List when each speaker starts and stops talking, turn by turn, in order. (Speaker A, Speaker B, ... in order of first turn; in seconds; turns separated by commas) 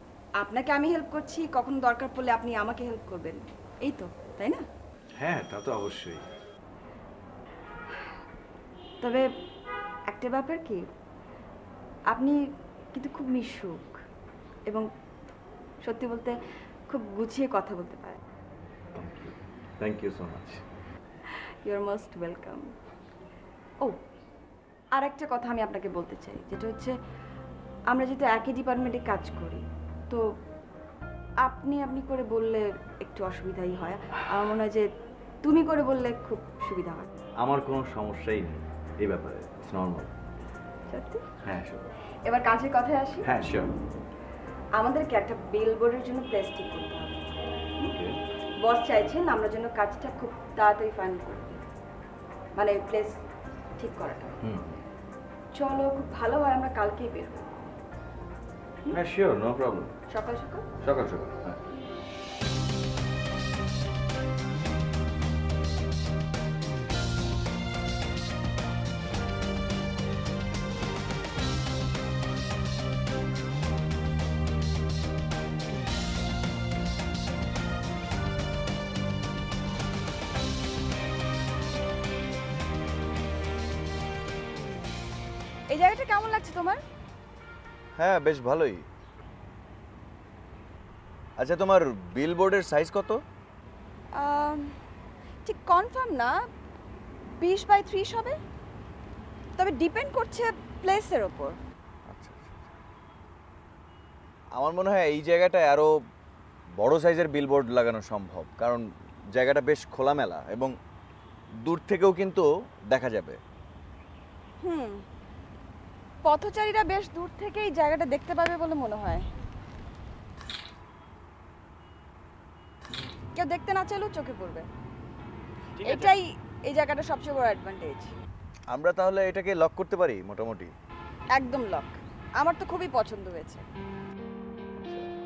Speaker A: 0.4-4.6, Speaker B: 5.2-6.2, Speaker A: 10.1-10.8, Speaker A: 12.1-12.4, Speaker A: 12.9-14.0, Speaker A: 15.8-16.4, Speaker A: 16.9-18.2, Speaker B: 18.9-20.6, Speaker A: 21.3-22.7, Speaker A: 25.0-26.9, Speaker A: 27.9-30.2, Speaker A: 31.4-34.9, Speaker A: 35.4-37.1, Speaker B: 37.4-40.1, Speaker A: 40.9-41.3, Speaker B: 41.4-41.9, Speaker A: 42.3-43.3, Speaker B: 43.2-43.7, Speaker A: 44.8-47.9, Speaker B: 47.9-48.2, Speaker A: 48.6-51.6, Speaker A: 52.6-53.2, Speaker A: 53.8-54.3, Speaker B: 54.4-54.7, Speaker A: 55.6-57.5, Speaker B: 58.9-59.9, Speaker A: 60.1-60.7, Speaker B: 60.8-61.6, Speaker A: 85.7-86.8, Speaker B: 88.0-88.8, Speaker B: 91.4-93.2, Speaker A: 94.2-94.8, Speaker A: 95.5-96.4, Speaker A: 97.4-98.4, Speaker A: 99.6-101.6, Speaker B: 102.1-102.7, Speaker B: 104.6-105.9, Speaker B: 106.8-108.8, Speaker B: 109.3-110.7, Speaker B: 111.7-113.4, Speaker A: 114.6-115.0, Speaker A: 116.2-119.2, Speaker A: 123.3-124.7, Speaker B: 125.8-126.2, Speaker A: 125.8-128.1, Speaker B: 128.7-130.7, Speaker A: 131.4-133.7